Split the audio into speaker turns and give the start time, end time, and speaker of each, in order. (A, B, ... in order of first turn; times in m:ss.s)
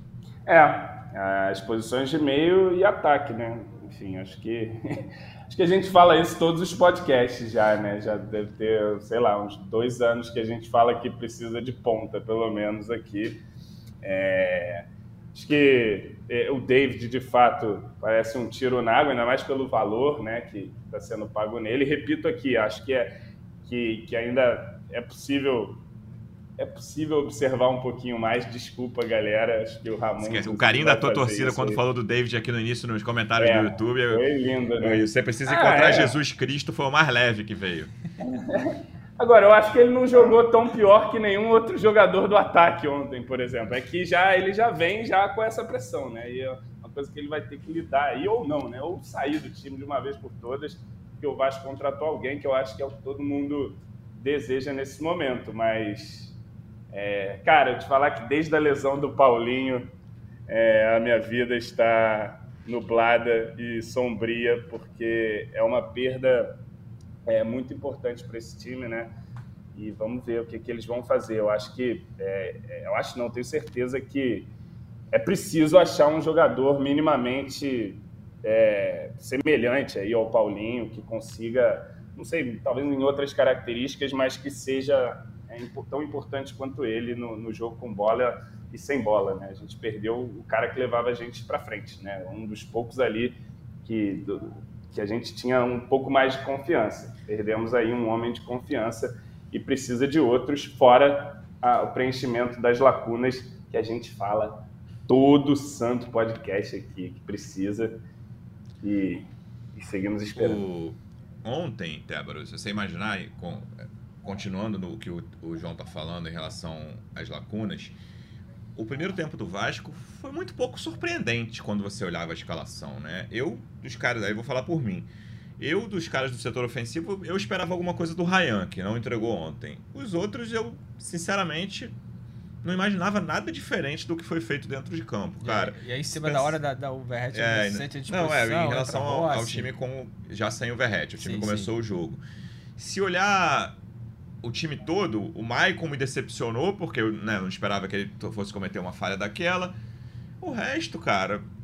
0:00.4-0:13.4 A
0:14.0-0:23.1 A
0:23.6-0:25.8 A
0:26.6-0:31.8 A
0:30.2-0:34.2 B
0:33.4-0:36.1 A
0:34.8-0:37.9 B
0:38.2-0:56.3 A
0:56.9-0:59.9 A
1:00.5-1:06.5 A
1:07.2-1:09.1 A
1:09.7-1:14.5 A
1:15.1-1:48.0 A
1:48.8-1:50.6 A
1:50.3-1:53.7 B
1:54.2-1:58.0 B
1:58.8-2:11.9 B
2:12.6-2:16.6 B
2:15.4-2:19.7 C
2:17.3-2:22.2 B
2:21.2-2:21.7 C
2:22.8-2:23.8 B
2:24.4-2:29.8 B
2:30.4-2:31.4 B